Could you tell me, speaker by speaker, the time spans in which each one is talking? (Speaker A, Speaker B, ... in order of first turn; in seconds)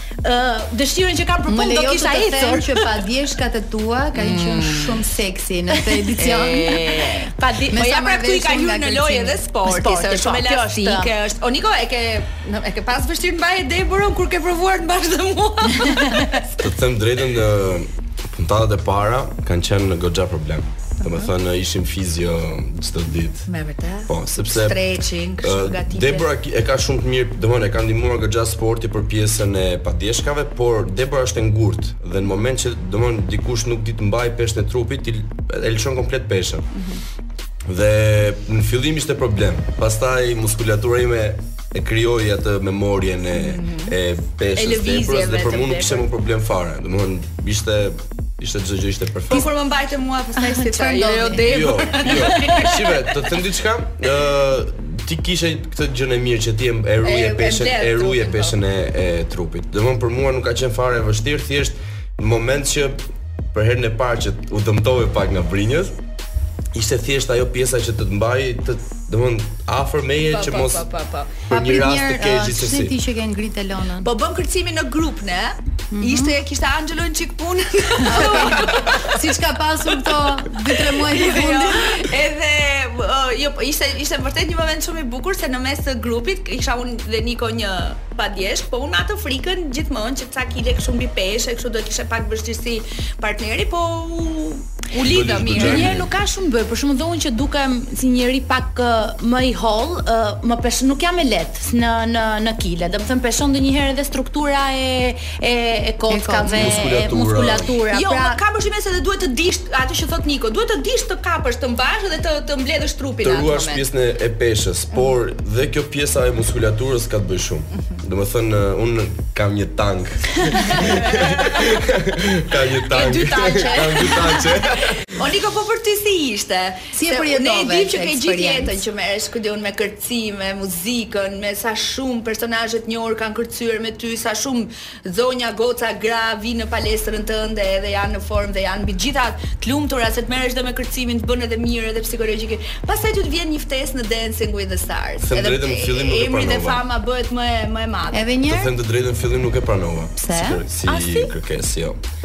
Speaker A: 0.2-2.9, 5.7-6.2, 7.2-7.8, 9.7-11.1, 15.8-16.4, 95.5-108.4, 150.9-151.3
Speaker B: 1.5-7.0, 7.7-9.5, 50.5-51.5, 71.5-74.1, 75.9-76.4, 78.0-82.1, 106.1-106.9, 126.9-128.8, 148.1-148.7, 150.2-150.6
Speaker C: 4.1-5.0, 6.2-16.4, 23.5-26.2, 43.3-44.0, 44.5-46.1, 49.3-53.3, 57.0-58.6, 70.3-71.4, 74.0-79.2, 80.4-96.0, 107.9-113.8, 120.7-121.8, 122.9-148.2
Speaker D: 16.6-23.5, 24.1-24.8, 25.4-36.7, 37.7-49.5, 51.4-66.0, 66.7-70.9, 71.5-72.9, 95.0-96.1, 106.5-107.7, 113.2-125.2, 145.2-146.8, 148.4-152.0